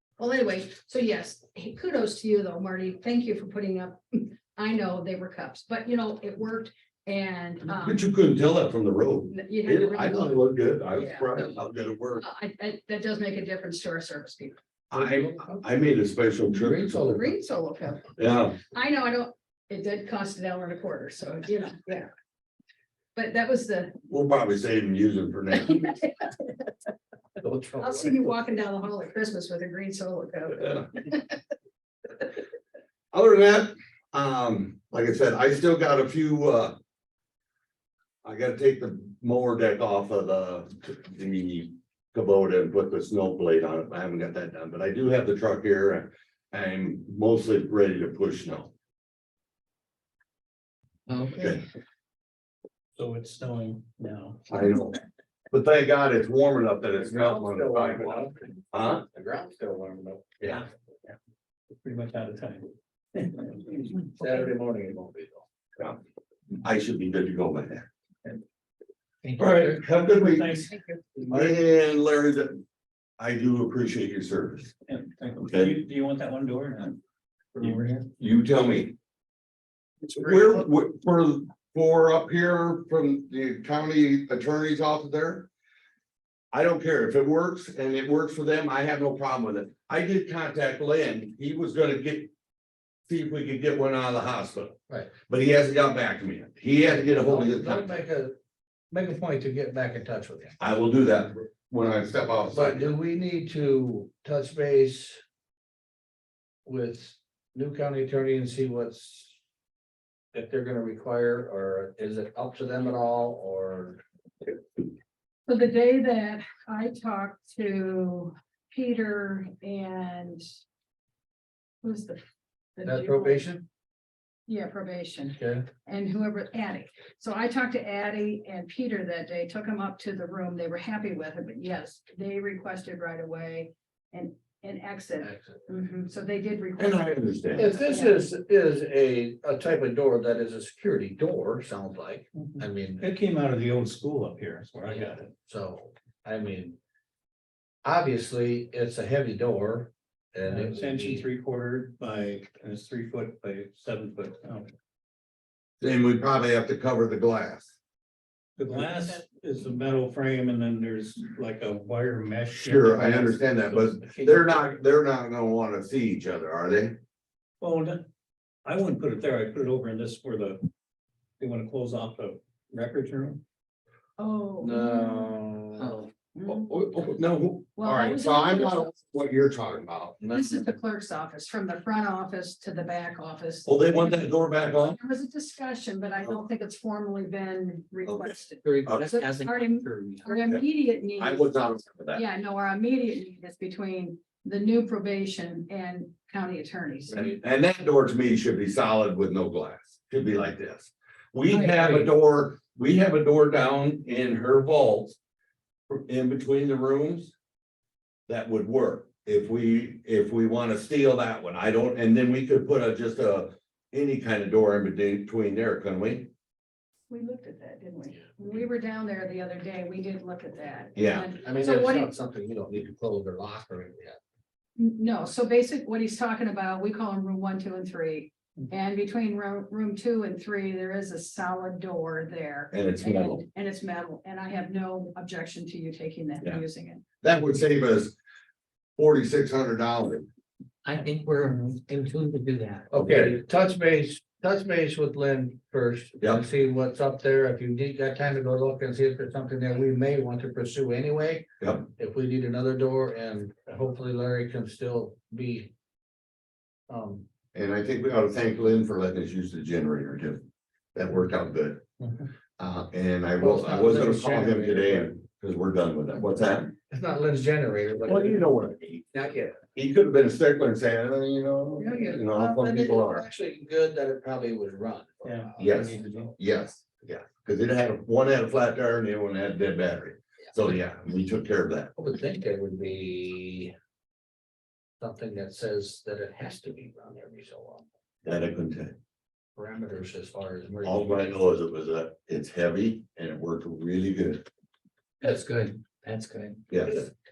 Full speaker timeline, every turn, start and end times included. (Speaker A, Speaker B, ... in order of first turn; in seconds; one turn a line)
Speaker A: 0.2-8.0
Speaker B: 7.7-12.2
Speaker A: 9.3-10.4
Speaker A: 10.9-11.6
Speaker A: 12.2-14.6
Speaker B: 14.9-17.1
Speaker C: 14.9-15.6
Speaker C: 16.5-17.3
Speaker A: 17.1-22.1
Speaker B: 18.1-18.6
Speaker A: 23.1-23.9
Speaker B: 24.1-26.0
Speaker A: 25.5-26.6
Speaker C: 27.4-28.3
Speaker A: 27.8-31.4
Speaker B: 33.1-36.8
Speaker B: 38.2-48.7
Speaker D: 51.1-51.6
Speaker B: 51.3-51.6
Speaker E: 53.0-54.4
Speaker B: 54.5-55.0
Speaker B: 55.5-59.0
Speaker C: 57.0-58.5
Speaker C: 59.1-60.6
Speaker E: 61.8-63.5
Speaker C: 63.5-65.4
Speaker B: 66.6-67.9
Speaker D: 69.2-69.8
Speaker B: 69.4-70.7
Speaker E: 70.1-71.6
Speaker B: 71.2-72.6
Speaker B: 73.2-74.7
Speaker E: 74.9-77.0
Speaker B: 75.3-75.8
Speaker E: 77.5-78.1
Speaker B: 77.6-78.9
Speaker E: 80.1-80.5
Speaker B: 80.1-85.5
Speaker B: 86.5-92.3
Speaker B: 93.1-94.8
Speaker B: 95.3-98.0
Speaker C: 97.2-98.3
Speaker C: 98.9-100.6
Speaker B: 100.6-102.9
Speaker C: 102.5-105.2
Speaker C: 106.7-109.3
Speaker C: 110.3-114.0
Speaker A: 115.5-120.4
Speaker A: 121.8-122.2
Speaker A: 122.8-123.5
Speaker C: 122.8-123.6
Speaker A: 124.5-138.2
Speaker C: 125.3-125.7
Speaker C: 135.2-135.7
Speaker B: 136.8-137.7
Speaker C: 137.5-143.1
Speaker E: 142.3-145.3
Speaker C: 144.9-146.8
Speaker C: 147.8-151.2
Speaker E: 150.4-154.7
Speaker B: 155.8-157.7
Speaker E: 158.6-164.6
Speaker B: 162.6-167.0
Speaker E: 167.6-168.0
Speaker E: 168.6-170.6
Speaker E: 171.4-173.4
Speaker A: 174.2-175.3
Speaker C: 174.6-176.0
Speaker D: 175.8-176.1
Speaker A: 176.3-176.7
Speaker B: 176.4-180.5
Speaker A: 177.8-179.0
Speaker A: 180.3-197.2
Speaker B: 183.7-185.0
Speaker B: 188.1-189.1
Speaker D: 188.6-190.3
Speaker B: 191.2-192.2
Speaker B: 197.1-205.2
Speaker A: 201.5-202.1
Speaker B: 205.9-207.3
Speaker B: 208.3-216.3
Speaker A: 217.1-222.1
Speaker B: 220.9-221.3
Speaker C: 221.4-224.2
Speaker A: 224.8-237.0
Speaker B: 232.7-233.4
Speaker B: 237.2-238.2
Speaker B: 239.0-240.3
Speaker D: 240.8-242.9
Speaker C: 242.9-255.7
Speaker B: 242.9-243.4
Speaker B: 251.6-251.9
Speaker C: 256.9-257.2
Speaker B: 257.5-260.4
Speaker B: 260.9-261.8
Speaker B: 262.6-266.7
Speaker C: 263.4-265.1
Speaker C: 266.9-268.5
Speaker B: 268.0-269.1
Speaker C: 269.1-269.6
Speaker B: 269.7-273.2
Speaker C: 271.8-276.3
Speaker E: 275.2-276.3
Speaker B: 275.6-281.9
Speaker C: 282.0-283.7
Speaker C: 285.0-287.8
Speaker B: 288.2-288.9
Speaker C: 289.6-291.4
Speaker B: 290.8-294.4
Speaker D: 295.2-296.6
Speaker B: 296.7-297.1